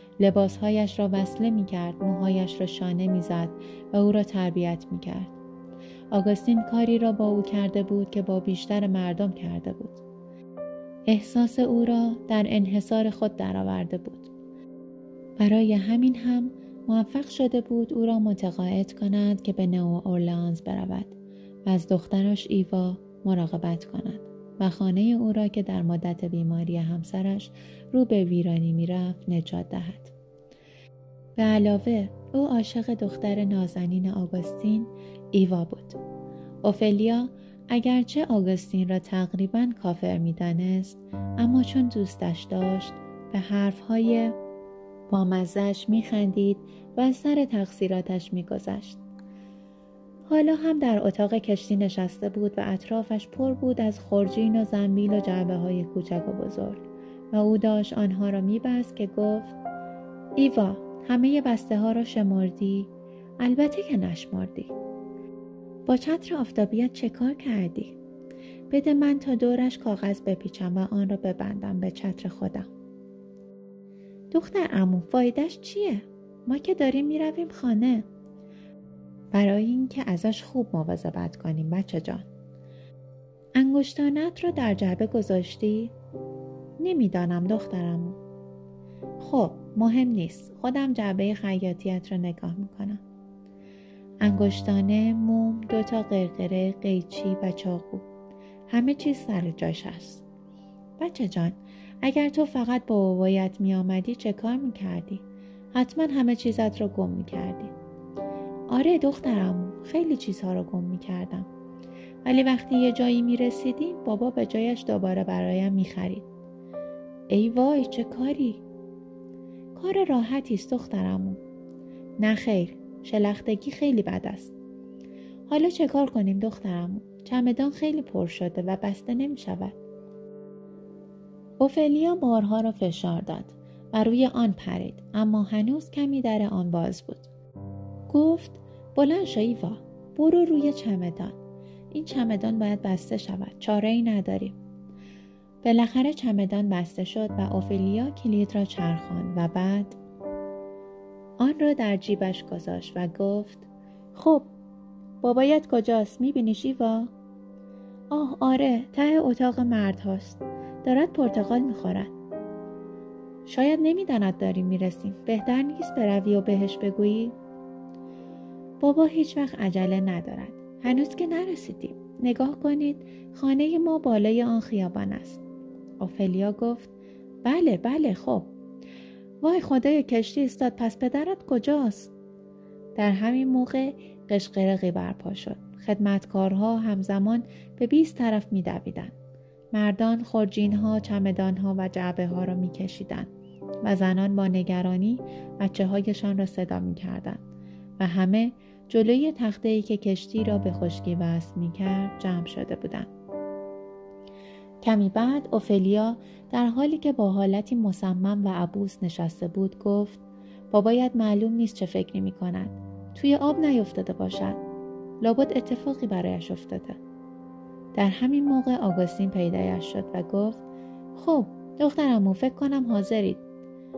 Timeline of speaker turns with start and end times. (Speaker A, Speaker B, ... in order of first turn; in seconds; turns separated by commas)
Speaker A: 0.2-5.4, Speaker A: 6.1-10.0, Speaker A: 11.1-14.3, Speaker A: 15.4-30.1, Speaker A: 31.4-36.0, Speaker A: 36.6-44.4, Speaker A: 45.1-49.0, Speaker A: 50.2-59.5, Speaker A: 60.4-64.8, Speaker A: 65.9-68.0, Speaker A: 68.7-72.7, Speaker A: 74.3-78.1, Speaker A: 79.3-82.3, Speaker A: 83.5-85.9, Speaker A: 86.8-88.2, Speaker A: 89.2-93.0, Speaker A: 94.2-98.0, Speaker A: 98.7-100.2, Speaker A: 101.0-107.7, Speaker A: 108.7-111.5, Speaker A: 112.2-116.2, Speaker A: 117.3-118.6, Speaker A: 119.7-121.4, Speaker A: 122.2-124.5, Speaker A: 125.5-129.8, Speaker A: 131.6-137.3, Speaker A: 138.1-141.4, Speaker A: 141.9-144.6, Speaker A: 145.6-150.0, Speaker A: 151.4-154.5, Speaker A: 155.2-157.1, Speaker A: 158.1-162.1, Speaker A: 163.5-167.3, Speaker A: 168.8-175.4, Speaker A: 176.0-176.9, Speaker A: 177.4-178.5, Speaker A: 179.4-182.1, Speaker A: 182.9-189.1, Speaker A: 189.7-193.3, Speaker A: 193.8-197.4, Speaker A: 198.0-203.1, Speaker A: 204.8-214.6, Speaker A: 215.2-217.0, Speaker A: 217.9-220.6, Speaker A: 221.1-223.4